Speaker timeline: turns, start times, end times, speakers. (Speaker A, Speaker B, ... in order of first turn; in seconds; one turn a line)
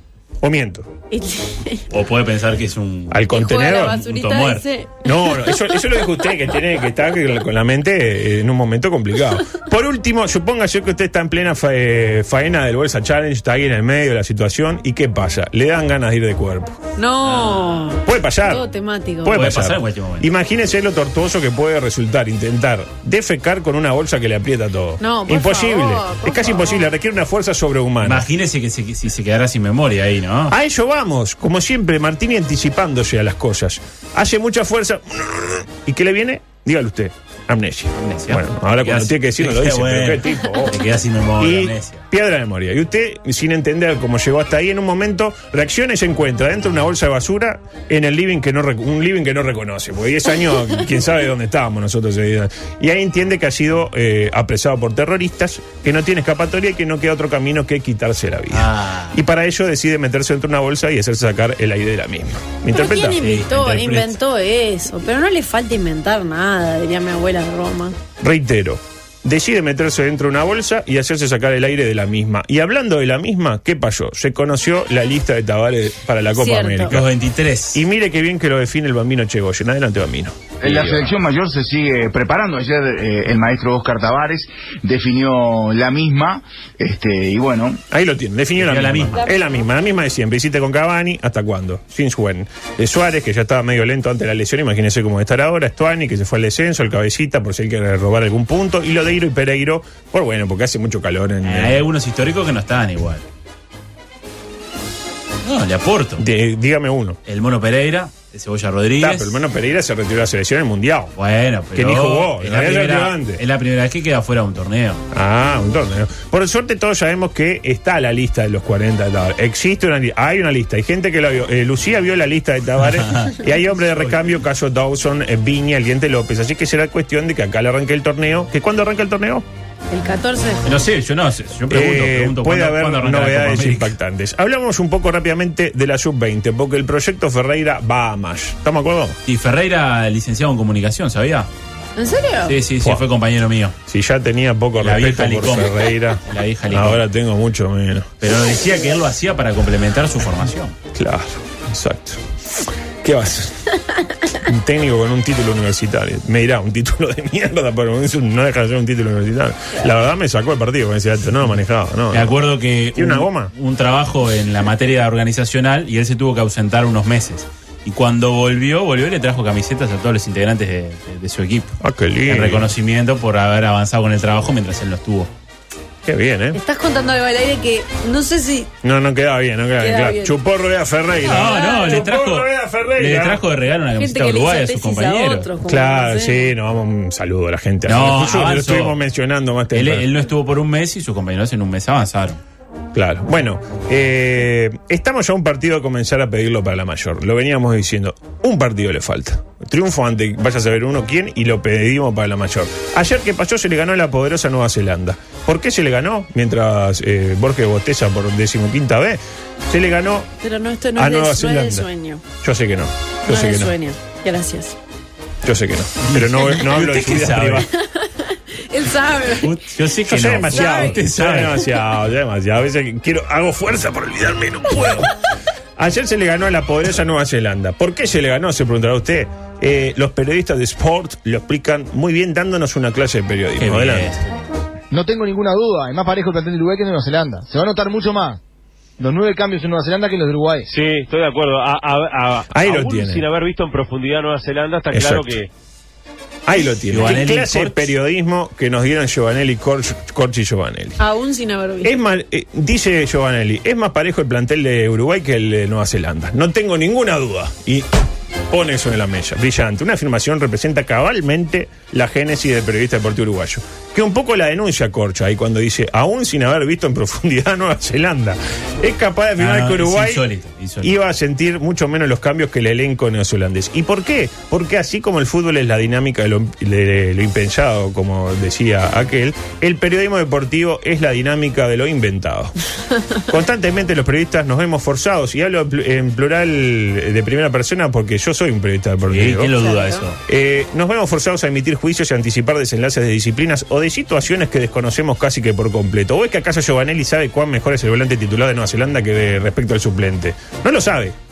Speaker A: 0.4-0.9
Speaker B: 1.1-1.8
Speaker C: 1.9-3.3
Speaker A: 3.1-4.0
Speaker B: 3.3-5.8
Speaker C: 3.8-4.6
Speaker A: 5.0-16.8
Speaker B: 17.0-19.4
Speaker C: 17.2-17.8
Speaker A: 18.1-18.6
Speaker A: 19.2-28.3
Speaker C: 19.3-20.3
Speaker B: 25.0-26.9
Speaker C: 28.0-30.5
Speaker A: 30.5-40.8
Speaker C: 38.0-42.0
Speaker A: 41.4-63.2
Speaker C: 58.5-59.2
Speaker B: 62.7-68.0
Speaker C: 63.2-64.2
Speaker A: 68.2-77.1
Speaker B: 76.3-77.0
Speaker C: 76.9-77.8
Speaker A: 77.7-81.2
Speaker D: 80.6-87.8
Speaker A: 87.9-101.9
Speaker C: 88.6-89.2
Speaker C: 101.4-103.2
Speaker C: 105.4-106.2
Speaker A: 106.2-107.2
Speaker C: 107.3-109.4
Speaker A: 109.0-111.1
Speaker C: 111.2-115.0
Speaker A: 111.8-113.4
Speaker A: 115.1-129.4
Speaker C: 122.8-124.2
Speaker B: 129.9-130.7
Speaker C: 130.6-133.9
Speaker A: 131.7-139.2
Speaker C: 139.3-141.5
Speaker B: 142.0-142.6
Speaker C: 142.5-143.8
Speaker A: 143.9-148.1
Speaker C: 144.8-147.0
Speaker C: 148.2-150.8
Speaker A: 150.9-153.7
Speaker A: 154.3-162.3
Speaker C: 162.1-171.7
Speaker A: 162.9-163.5
Speaker A: 171.8-172.7
Speaker C: 172.3-175.3
Speaker A: 176.1-176.6
Speaker B: 176.5-178.7
Speaker A: 178.8-183.4
Speaker B: 179.8-180.4
Speaker C: 181.2-185.5
Speaker B: 181.3-182.0
Speaker B: 184.0-186.5
Speaker A: 185.6-190.1
Speaker C: 187.9-189.0
Speaker C: 189.7-192.4
Speaker A: 192.9-210.3
Speaker B: 210.4-212.2
Speaker A: 211.0-211.9
Speaker A: 212.4-213.7
Speaker B: 213.3-214.8
Speaker A: 215.4-217.7
Speaker C: 216.0-217.7
Speaker B: 218.0-219.6
Speaker C: 219.3-221.6
Speaker A: 220.1-225.1
Speaker B: 220.5-221.0
Speaker A: 225.8-234.2
Speaker C: 233.6-234.2
Speaker E: 234.9-238.4
Speaker E: 239.0-240.7
Speaker F: 240.7-245.5
Speaker A: 242.5-243.3
Speaker A: 244.9-245.4
Speaker A: 246.5-251.0
Speaker C: 246.9-247.9
Speaker B: 251.0-251.9
Speaker A: 251.8-257.9
Speaker A: 258.5-270.2
Speaker C: 269.4-270.9
Speaker A: 270.8-282.5
Speaker A: 283.3-289.5
Speaker C: 289.1-290.2
Speaker B: 289.6-290.0
Speaker A: 290.3-301.2